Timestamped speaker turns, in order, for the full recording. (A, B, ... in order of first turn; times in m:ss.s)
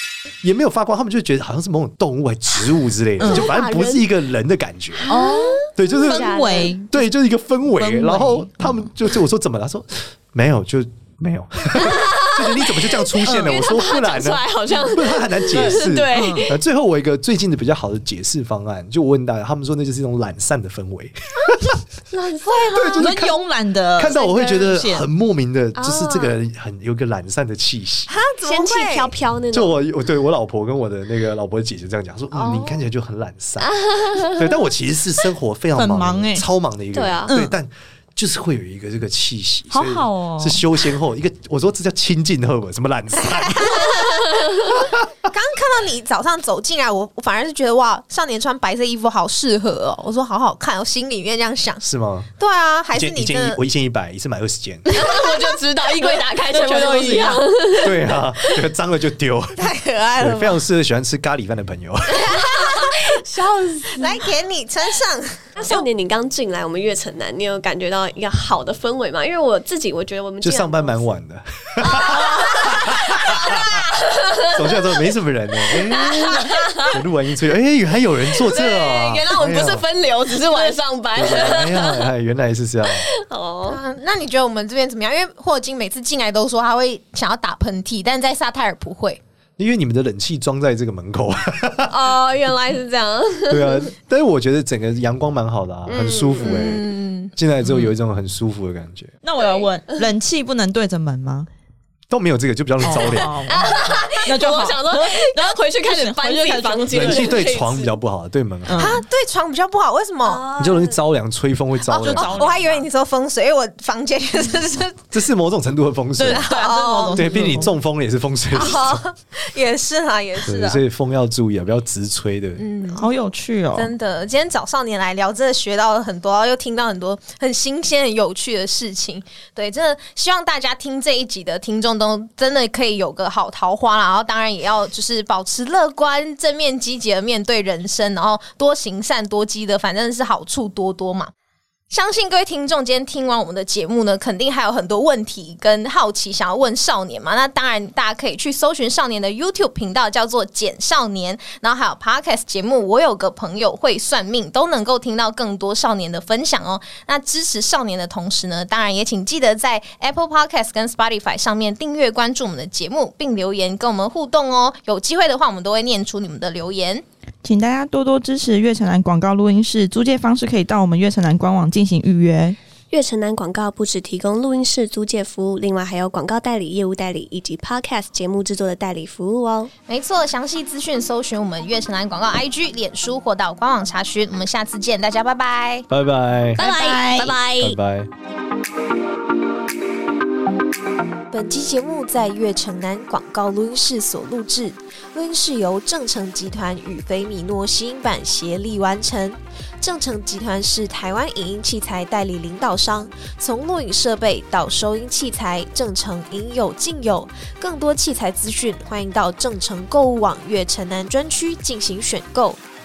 0:00.4-0:05.1 A
0:03.2-0:03.5 B
0:03.2-0:04.1 C
0:05.0-0:06.8 C
0:05.1-0:06.9 B
0:05.8-0:06.4 A
0:06.9-0:21.8 A
0:07.8-0:08.8 B
0:11.7-0:16.6 C
0:13.3-0:13.6 B
0:15.5-0:16.5 B
0:22.1-0:23.2 C
0:22.7-0:23.4 A
0:23.0-0:25.1 B
0:24.0-0:28.1 A
0:24.2-0:24.5 C
0:25.8-0:26.4 C
0:28.1-0:29.1 D
0:28.4-0:29.8 C
0:29.5-0:45.3 A
0:32.4-0:32.8 D
0:33.6-0:34.4 C
0:35.8-0:36.5 B
0:36.9-0:37.3 C
0:37.3-0:37.6 B
0:39.7-0:40.6 B
0:43.4-0:44.8 D
0:45.3-0:51.8 D
0:51.8-0:52.3 A
0:52.4-0:53.6 D
0:52.9-0:54.9 A
0:54.9-0:58.6 C
0:56.0-0:57.5 B
0:57.8-1:02.4 A
0:59.6-1:00.6 D
1:02.1-1:03.2 D
1:02.3-1:04.2 C
1:03.8-1:05.8 D
1:05.6-1:11.2 C
1:10.4-1:13.8 A
1:11.8-1:14.9 C
1:14.5-1:19.8 A
1:15.6-1:17.0 C
1:18.3-1:22.1 C
1:21.1-1:23.1 A
1:23.0-1:23.8 C
1:23.7-1:29.2 D
1:29.6-1:32.0 A
1:31.9-1:33.9 C
1:33.5-1:39.1 A
1:35.9-1:36.8 C
1:36.4-1:37.3 D
1:37.6-1:38.0 B
1:39.2-1:41.5 B
1:42.1-1:43.4 A
1:42.8-1:47.4 B
1:42.9-1:48.0 C
1:46.9-1:49.0 A
1:48.7-1:49.0 B
1:48.8-1:50.5 D
1:50.2-1:51.0 C
1:50.6-1:52.5 A
1:51.9-1:55.0 D
1:51.9-1:52.9 B
1:55.1-1:56.5 A
1:56.2-1:57.7 B
1:56.3-1:57.6 D
1:57.1-1:59.0 A
1:58.5-2:00.8 D
2:00.5-2:02.7 A
2:02.6-2:03.1 D
2:02.9-2:03.9 B
2:03.8-2:21.3 D
2:21.9-2:47.0 D
2:47.4-2:52.6 B
2:52.9-2:59.7 C
2:59.9-3:05.9 D
3:05.9-3:06.6 A
3:06.6-3:07.8 C
3:06.6-3:07.4 B
3:07.6-3:08.1 A
3:11.3-3:32.6 D